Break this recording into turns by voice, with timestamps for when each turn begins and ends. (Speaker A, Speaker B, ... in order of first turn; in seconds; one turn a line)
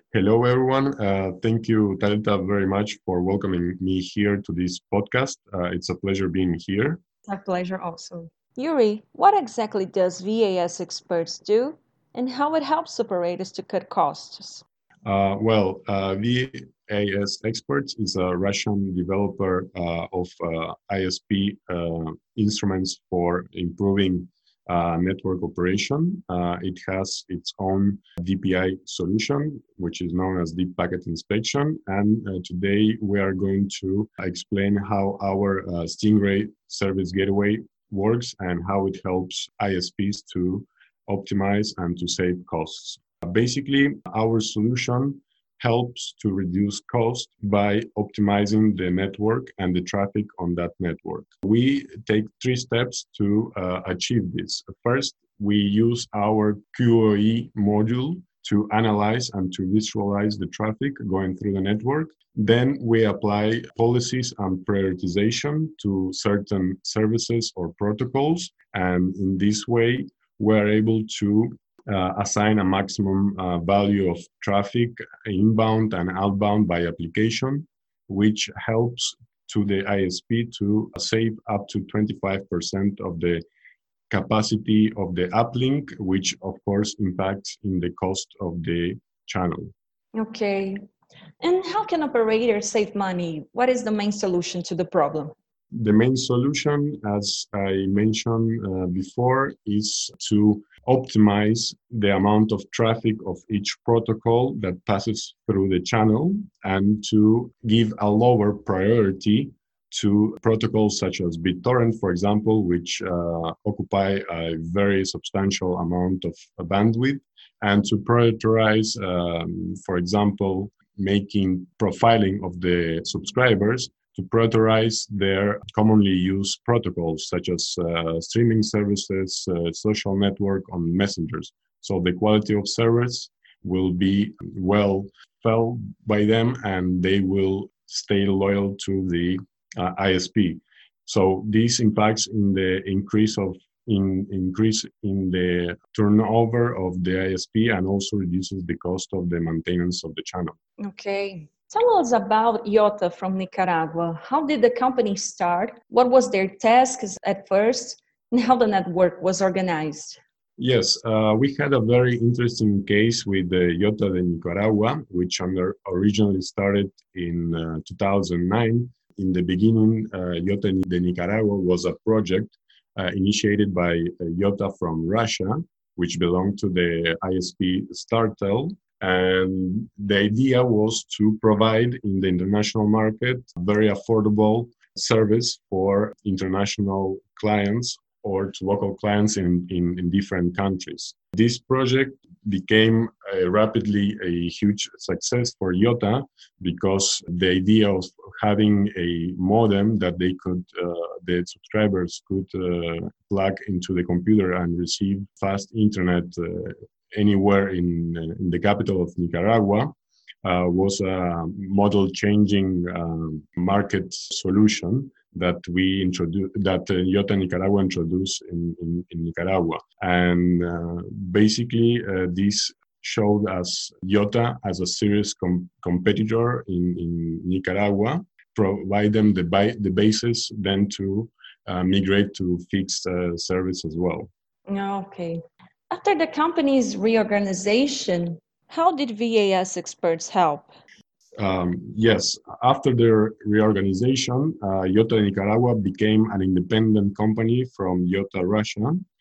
Speaker A: 0.1-7.0
Speaker B: 7.3-10.2
Speaker C: 8.6-14.6
Speaker B: 12.2-14.5
Speaker A: 15.0-83.4
Speaker A: 84.1-89.7
Speaker B: 90.1-90.8
Speaker B: 91.4-95.3
Speaker A: 95.7-150.6
Speaker B: 150.8-160.2
Speaker A: 160.6-234.3
Speaker B: 234.7-238.4
Speaker C: 238.7-240.7
Speaker A: 241.4-249.1